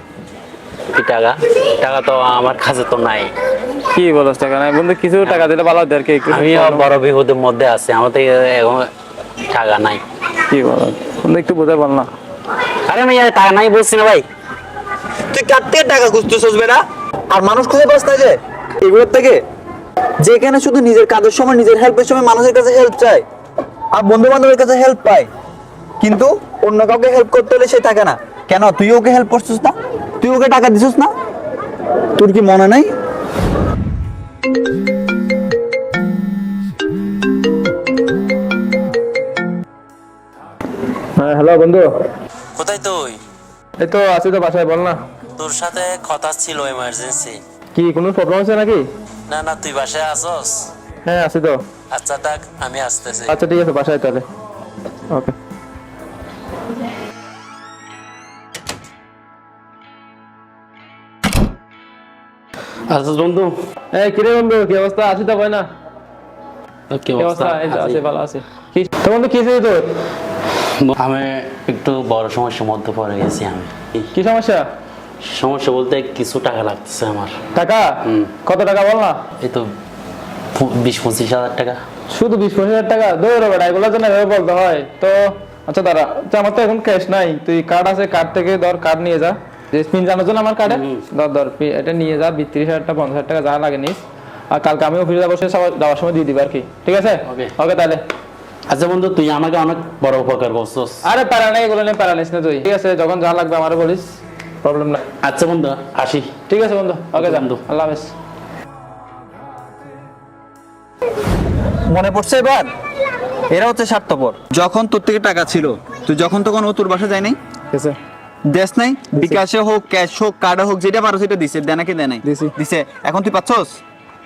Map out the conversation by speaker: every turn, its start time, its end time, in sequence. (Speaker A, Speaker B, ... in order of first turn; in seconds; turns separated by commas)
Speaker A: 0.9-3.3, Speaker B: 3.9-6.9, Speaker A: 6.3-8.9, Speaker A: 9.5-10.0, Speaker B: 10.5-12.1, Speaker A: 12.8-14.2, Speaker C: 15.3-19.4, Speaker C: 20.2-23.2, Speaker C: 23.9-25.3, Speaker C: 26.0-31.1, Speaker C: 32.2-32.9, Speaker B: 41.2-41.9, Speaker A: 42.5-43.2, Speaker B: 43.8-45.0, Speaker A: 45.4-47.4, Speaker B: 47.7-48.9, Speaker A: 49.3-50.7, Speaker B: 51.0-51.6, Speaker A: 51.9-53.3, Speaker B: 53.3-54.2, Speaker B: 55.1-55.3, Speaker A: 62.9-63.5, Speaker B: 63.9-65.7, Speaker A: 66.9-68.0, Speaker B: 67.1-69.9, Speaker A: 70.8-74.1, Speaker B: 74.1-74.6, Speaker A: 75.2-77.4, Speaker B: 77.5-79.2, Speaker A: 78.0-78.3, Speaker A: 79.4-79.7, Speaker A: 80.5-81.8, Speaker B: 82.1-94.0, Speaker A: 90.7-91.0, Speaker B: 94.5-98.0, Speaker A: 97.3-97.5, Speaker A: 98.7-101.0, Speaker B: 101.0-104.0, Speaker B: 104.6-105.0, Speaker A: 105.2-106.3, Speaker B: 106.5-108.1, Speaker A: 107.1-107.6, Speaker C: 111.9-112.7, Speaker C: 113.5-117.4, Speaker B: 117.7-118.0, Speaker C: 118.5-123.8, Speaker B: 122.2-122.5